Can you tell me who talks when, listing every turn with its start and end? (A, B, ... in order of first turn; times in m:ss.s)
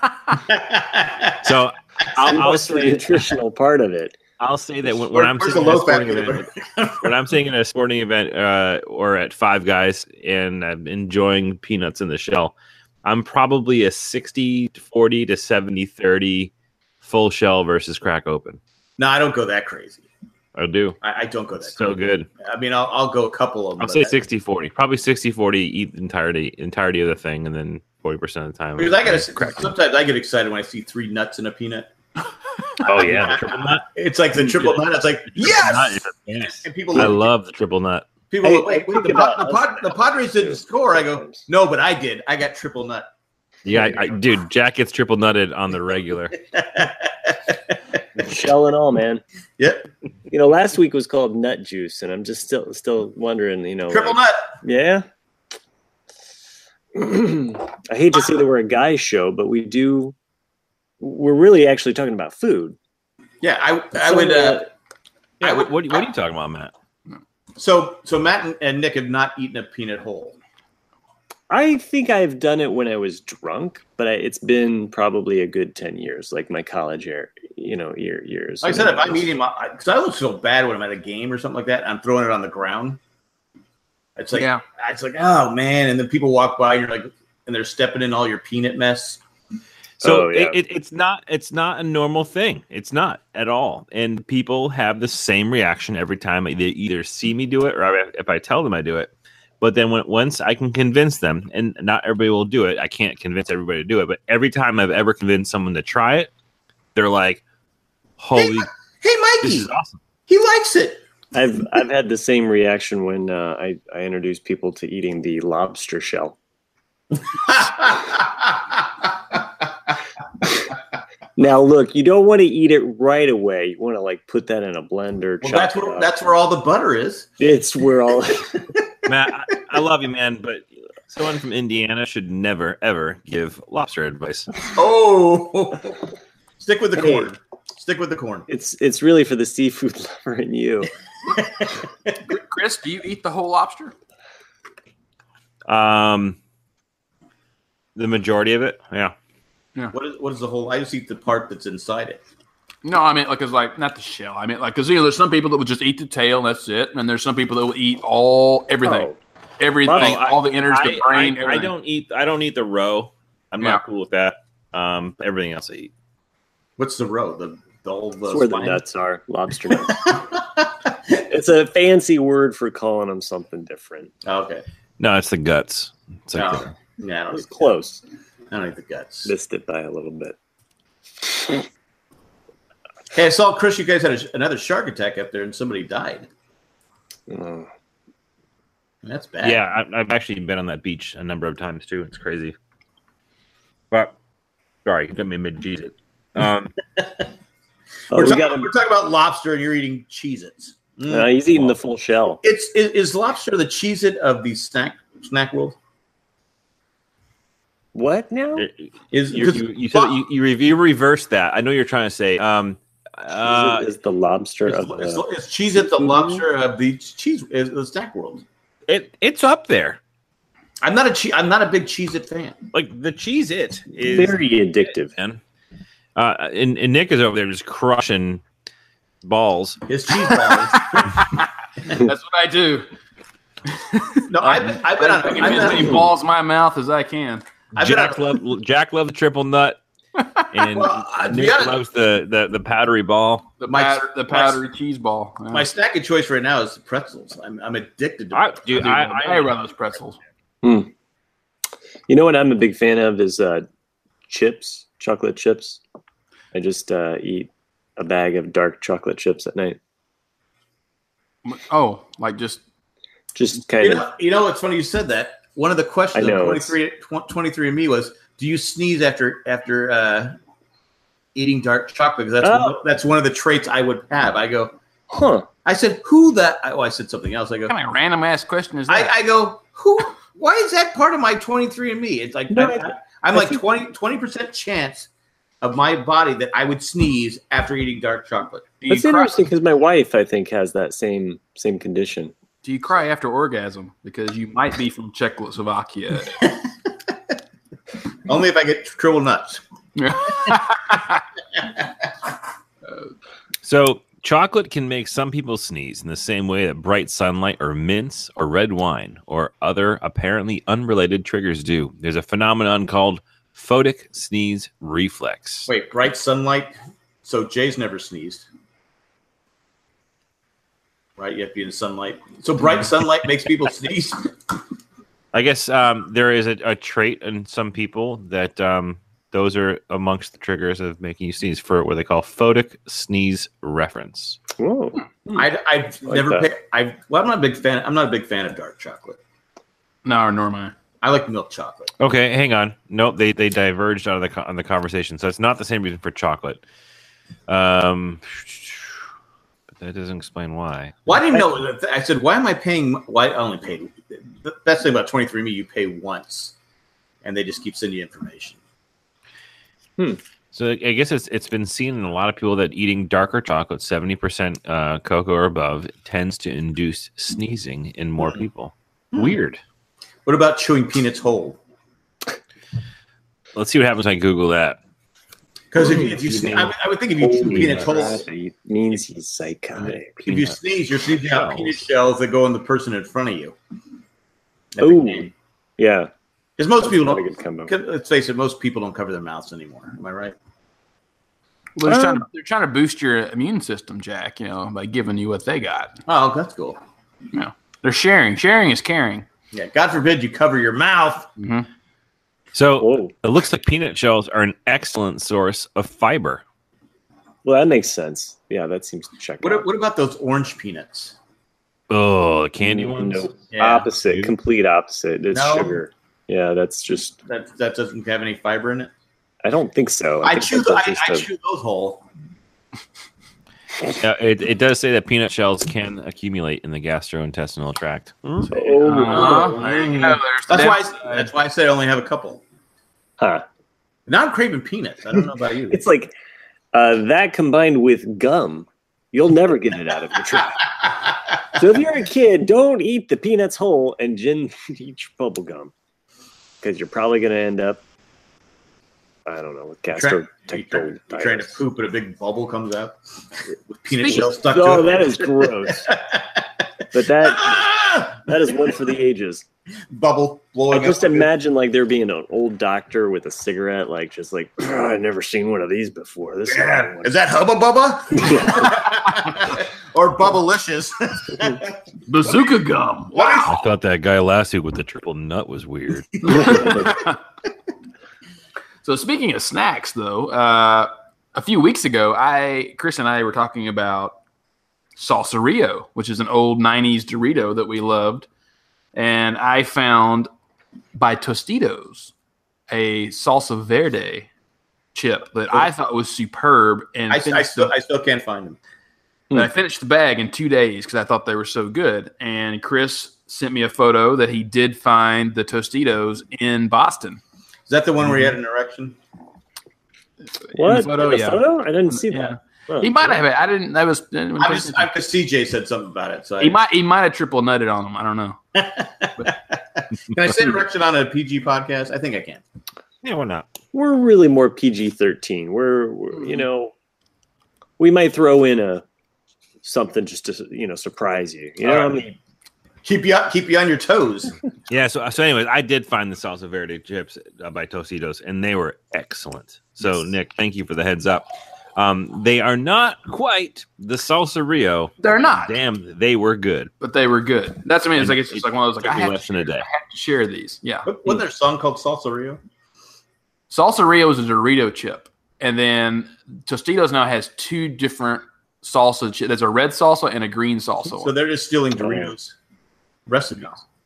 0:00.4-0:01.5 A
0:01.4-0:03.3 B
0:02.2-0:04.2 C
0:04.4-0:06.5 B
0:05.1-0:07.1 A
0:07.0-0:12.5 B
0:13.0-0:16.5 B
0:17.0-0:18.6 B
0:19.0-0:20.0 A
0:20.5-0:21.0 B
0:21.0-0:24.2 A
0:21.6-0:22.3 B
0:23.8-0:29.7 B
0:28.8-0:31.9 A
0:32.8-0:33.8 B
0:32.8-0:37.2 A
0:35.4-0:38.1 B
0:38.3-0:43.1 A
0:38.4-0:41.4 C
0:43.6-0:46.4 B
0:43.8-0:44.0 A
0:46.5-0:48.2 A
0:48.2-0:49.2 C
0:49.6-0:49.9 A
0:50.3-0:55.0 C
0:53.9-0:54.5 A
0:56.9-1:00.1 C
1:01.0-1:02.8 C
1:03.4-1:04.7 A
1:04.0-1:04.6 C
1:05.4-1:06.7 B
1:05.4-1:06.1 A
1:07.6-1:10.4 A
1:11.5-1:19.2 C
1:18.6-1:23.0 A
1:24.2-1:29.2 A
1:24.3-1:24.6 D
1:30.0-1:46.3 B
1:30.0-1:30.6 C
1:46.9-1:47.4 B
1:48.2-1:48.7 B
1:48.3-1:49.7 A
1:49.4-1:50.0 B
1:50.3-1:51.0 A
1:51.3-1:56.4 C
1:57.2-1:59.4 A
2:01.4-2:06.2 C
2:05.4-2:07.3 A
2:07.4-2:08.7 C
2:09.0-2:14.5 B
2:14.7-2:18.5 A
2:17.0-2:17.3 C
2:18.5-2:20.9 C
2:21.3-2:22.2 A
2:22.3-2:23.9 D
2:25.7-2:26.4 B
2:28.0-2:29.1 B
2:29.9-2:32.2 A
2:32.8-2:41.7 D
2:38.8-2:39.2 C
2:39.8-2:40.3 C
2:39.9-2:45.9 B
2:46.8-2:48.8 A
2:48.3-2:50.2 C
2:49.7-2:51.0 A
2:51.1-2:54.1 C
2:54.2-2:54.6 A
2:55.0-2:56.7 B
2:56.3-2:57.7 A
2:57.3-2:58.0 C
2:58.5-2:59.3 A
2:59.2-3:00.4 C
3:03.1-3:06.3 A
3:07.3-3:07.7 C
3:09.0-3:09.6 A
3:09.4-3:12.6 B
3:14.8-3:16.7 B
3:18.1-3:18.7 C
3:18.1-3:21.7 A
3:21.1-3:22.4 C
3:22.4-3:25.8 A
3:27.9-3:28.7 C
3:28.6-3:33.9 B
3:29.1-3:30.2 A
3:33.4-3:35.2 C
3:34.6-3:38.4 A
3:36.0-3:36.4 C
3:38.9-3:40.0 B
3:40.8-3:42.6 A
3:42.7-3:45.4 B
3:44.1-3:45.1 C
3:46.2-3:48.4 B
3:49.2-3:49.8 B
3:49.9-3:51.2 A
3:51.0-3:51.2 D
3:51.9-3:52.9 D
3:53.7-3:57.4 D
3:54.3-3:56.1 A
3:57.7-3:58.3 A
3:57.8-3:59.8 B
4:00.2-4:00.4 D
4:00.5-4:03.5 B
4:00.7-4:01.8 A
4:03.6-4:05.7 D
4:03.7-4:04.6 A
4:05.5-4:09.3 A
4:08.3-4:09.5 B
4:08.8-4:10.2 D
4:10.6-4:10.9 C
4:12.1-4:13.6 C
4:14.3-4:15.8 C
4:16.5-4:19.8 C
4:21.4-4:22.6 D
4:23.3-4:24.0 C
4:23.8-4:30.4 A
4:26.1-4:26.7 C
4:31.3-4:34.8 A
4:32.4-4:32.8 C
4:35.1-4:35.5 C
4:35.6-4:37.7 A
4:37.7-4:39.1 D
4:38.9-4:45.1 A
4:42.5-4:43.6 C
4:45.6-4:48.7 A
4:48.8-4:49.4 D
4:48.9-4:52.3 C
4:52.6-4:56.4 D
4:58.2-4:59.6 A
5:00.0-5:01.2 D
5:03.6-5:15.7 B
5:15.7-5:18.5 A
5:21.2-5:24.3 A
5:25.3-5:34.4 B
5:34.6-5:35.4 C
5:35.3-5:39.2 A
5:36.1-5:36.5 C
5:40.0-5:40.7 D
5:41.0-5:41.9 A
5:42.0-5:46.6 B
5:47.5-5:48.9 B
5:49.7-5:51.1 B
5:51.0-5:56.5 A
5:57.2-5:58.6 A
6:00.5-6:09.6 B
6:10.2-6:11.6 A
6:13.5-6:14.8 B
6:15.7-6:18.2 A
6:15.8-6:16.6 C
6:16.3-6:16.7 B
6:17.2-6:20.5 C
6:17.4-6:18.1 B
6:20.2-6:23.6 A
6:21.3-6:21.8 B
6:24.7-6:25.3 A
6:24.8-6:26.1 C
6:26.6-6:30.4 A
6:26.8-6:27.7 C
6:31.8-6:36.0 D
6:31.8-6:32.2 C
6:36.0-6:36.8 A
6:37.3-6:39.2 D
6:39.5-6:41.3 A
6:41.4-6:41.7 D
6:42.5-6:46.4 B
6:42.8-6:43.1 C
6:47.4-6:49.6 C
6:49.4-6:51.2 A
6:51.9-6:53.3 B
6:52.6-6:57.2 C
6:53.5-6:53.9 A
6:54.0-6:54.3 B
6:55.3-6:55.8 A
6:57.3-6:58.9 A
6:59.4-7:01.2 C
7:00.2-7:02.0 A
7:03.9-7:09.3 B
7:08.4-7:09.7 C
7:08.8-7:11.3 D
7:08.9-7:12.4 A
7:13.2-7:13.4 C
7:14.1-7:15.8 A
7:15.7-7:16.1 C
7:16.7-7:20.7 C
7:21.5-7:25.7 C
7:26.6-7:27.8 C
7:29.2-7:31.6 C
7:29.9-7:38.8 A
7:34.0-7:35.9 C
7:36.9-7:39.4 C
7:39.9-7:41.3 A
7:40.7-7:47.1 C
7:46.4-7:52.5 A
7:48.1-7:48.9 C
7:52.1-7:53.6 D
7:53.1-7:53.5 A
7:53.5-7:56.7 B
7:56.2-7:57.2 D
7:56.3-7:56.6 A
7:56.4-7:56.9 C
7:58.8-8:04.1 D
8:05.0-8:08.3 D
8:08.9-8:10.3 D
8:10.9-8:12.1 D
8:12.7-8:14.3 D
8:14.9-8:17.7 D
8:17.1-8:18.6 A
8:19.3-8:27.2 D
8:27.7-8:29.0 A
8:30.4-8:34.9 D
8:30.5-8:33.2 C
8:34.4-8:36.6 A
8:36.4-8:38.4 D
8:38.5-8:42.4 A
8:43.0-8:43.5 B
8:43.7-8:46.7 C
8:46.2-8:46.4 D
8:47.8-8:48.8 C
8:49.6-8:52.2 C
8:51.6-8:52.0 A
8:52.8-8:54.3 A
8:54.7-9:06.7 B
9:05.0-9:05.6 D
9:06.8-9:10.9 D
9:08.0-9:09.6 B
9:10.8-9:12.4 A
9:13.5-9:21.1 D
9:20.9-9:22.4 A
9:21.8-9:22.1 C
9:23.1-9:23.6 A